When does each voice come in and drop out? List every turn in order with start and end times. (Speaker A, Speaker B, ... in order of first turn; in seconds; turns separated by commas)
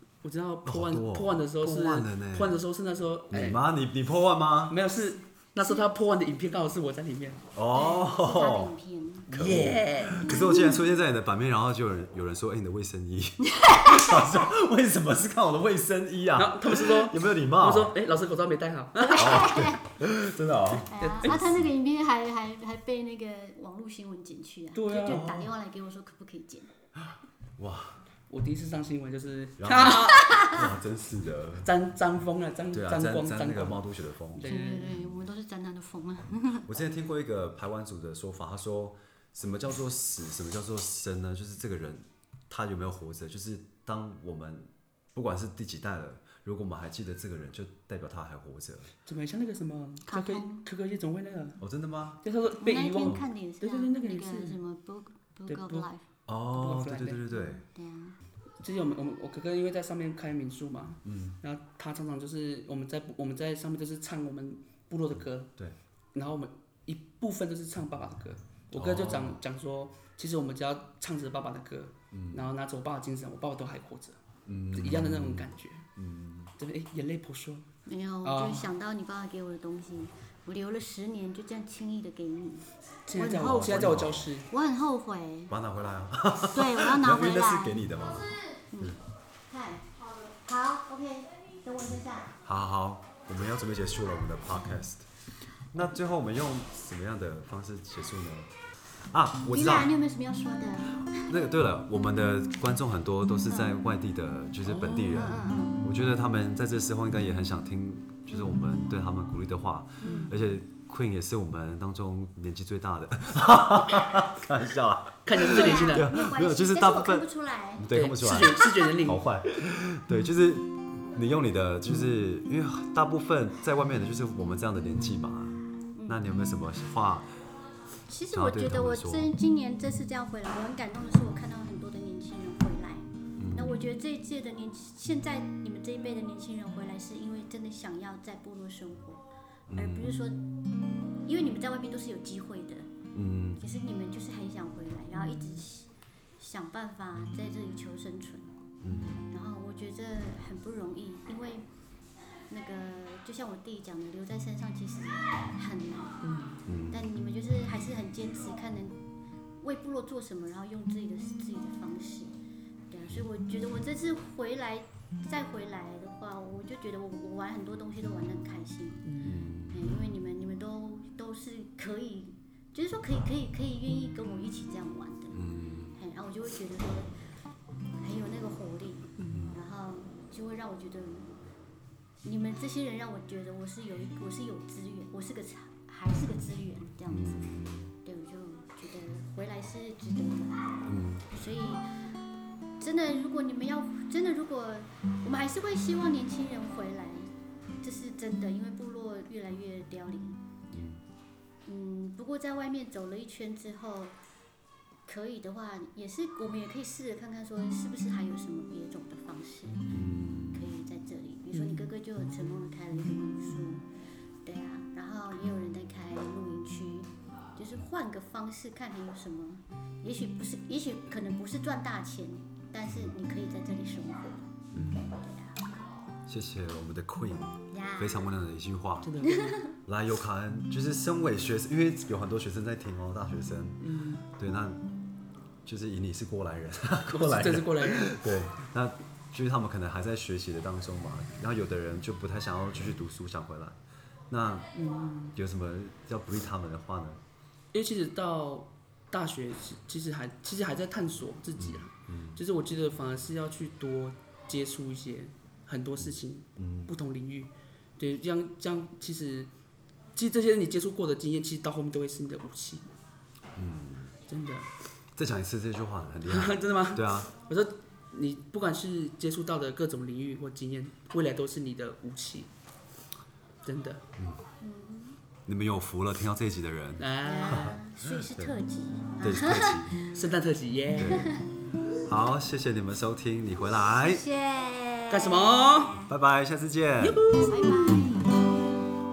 Speaker A: 0.2-3.6, Speaker B: 0.7-2.6, Speaker B: 3.3-4.8, Speaker A: 4.7-7.4, Speaker B: 7.5-8.7, Speaker C: 7.7-9.3, Speaker B: 9.3-17.9, Speaker A: 9.3-10.4, Speaker C: 10.2-10.8, Speaker C: 13.4-14.4, Speaker A: 16.4-19.7, Speaker C: 19.0-19.9, Speaker B: 19.2-21.7, Speaker C: 20.9-26.7, Speaker A: 21.0-21.4, Speaker A: 24.8-25.4, Speaker B: 25.1-25.5, Speaker B: 27.0-28.0, Speaker A: 28.3-30.5, Speaker B: 29.6-31.7, Speaker C: 30.1-30.6, Speaker A: 31.6-35.0, Speaker B: 32.7-34.5, Speaker C: 34.5-36.7, Speaker B: 36.7-48.9, Speaker A: 49.1-51.6, Speaker C: 50.0-50.6, Speaker B: 51.6-52.2, Speaker A: 52.2-54.6, Speaker C: 52.6-56.0, Speaker A: 55.5-55.9, Speaker B: 56.3-57.6, Speaker A: 56.5-57.2, Speaker C: 57.3-58.2, Speaker A: 58.6-65.5, Speaker B: 61.0-61.4, Speaker A: 66.1-74.2, Speaker B: 68.7-69.4, Speaker B: 72.1-72.5, Speaker B: 74.5-76.5, Speaker A: 74.7-75.9, Speaker A: 76.6-77.7, Speaker C: 77.9-85.5, Speaker A: 78.2-78.7, Speaker A: 83.1-84.5, Speaker B: 83.4-84.3, Speaker B: 85.5-89.0, Speaker C: 86.4-92.3, Speaker B: 92.4-95.1, Speaker B: 95.7-98.5, Speaker B: 99.1-99.9, Speaker C: 99.5-101.3, Speaker B: 101.1-127.3, Speaker A: 104.7-105.3, Speaker C: 105.1-105.8, Speaker C: 110.0-110.3, Speaker A: 110.1-110.3, Speaker A: 115.2-116.1, Speaker C: 115.4-118.9, Speaker A: 117.9-119.2, Speaker C: 128.1-140.4, Speaker B: 128.3-129.3, Speaker B: 133.4-133.8, Speaker B: 139.7-140.2, Speaker C: 141.3-142.9, Speaker B: 143.1-143.6, Speaker C: 143.6-148.6, Speaker B: 148.8-149.3, Speaker C: 149.3-151.6, Speaker C: 152.5-156.2, Speaker A: 156.2-156.6, Speaker B: 156.7-157.0, Speaker C: 156.9-159.0, Speaker C: 159.6-162.3, Speaker C: 162.9-169.2, Speaker A: 169.1-169.4, Speaker B: 169.2-170.0, Speaker C: 169.7-175.4, Speaker B: 175.3-176.0, Speaker C: 176.0-177.1, Speaker C: 178.0-181.4, Speaker B: 179.3-179.6, Speaker C: 182.2-190.7, Speaker B: 187.1-187.9, Speaker B: 190.9-191.3, Speaker C: 191.3-191.9, Speaker C: 192.8-197.3, Speaker C: 197.8-200.4, Speaker B: 200.7-201.0, Speaker C: 201.7-204.2, Speaker C: 205.1-209.9, Speaker B: 209.9-210.7, Speaker C: 210.5-213.8, Speaker A: 211.5-211.9, Speaker C: 214.4-225.6, Speaker B: 222.9-223.1, Speaker B: 224.7-225.1, Speaker B: 226.3-229.2, Speaker C: 227.7-228.3, Speaker A: 229.0-229.6, Speaker C: 229.2-229.7, Speaker B: 229.8-234.8, Speaker A: 233.8-234.2, Speaker B: 235.7-243.8, Speaker A: 237.1-238.2, Speaker B: 244.3-244.7, Speaker A: 244.8-245.4, Speaker B: 245.3-247.2, Speaker A: 247.7-259.5, Speaker B: 251.6-252.4, Speaker B: 256.0-256.9, Speaker A: 260.2-262.9, Speaker B: 263.6-264.1, Speaker A: 264.3-264.7, Speaker B: 265.2-267.3, Speaker A: 266.3-272.5, Speaker A: 273.6-274.0, Speaker B: 274.2-274.4, Speaker C: 274.6-275.2, Speaker B: 275.5-278.5, Speaker A: 277.0-277.8, Speaker C: 277.2-280.1, Speaker B: 279.2-280.0, Speaker A: 280.1-281.2, Speaker B: 281.0-281.4, Speaker C: 281.0-281.5, Speaker B: 281.9-284.2, Speaker C: 284.0-285.9, Speaker A: 285.1-286.1, Speaker B: 285.9-287.4, Speaker A: 287.0-288.1, Speaker C: 287.4-288.4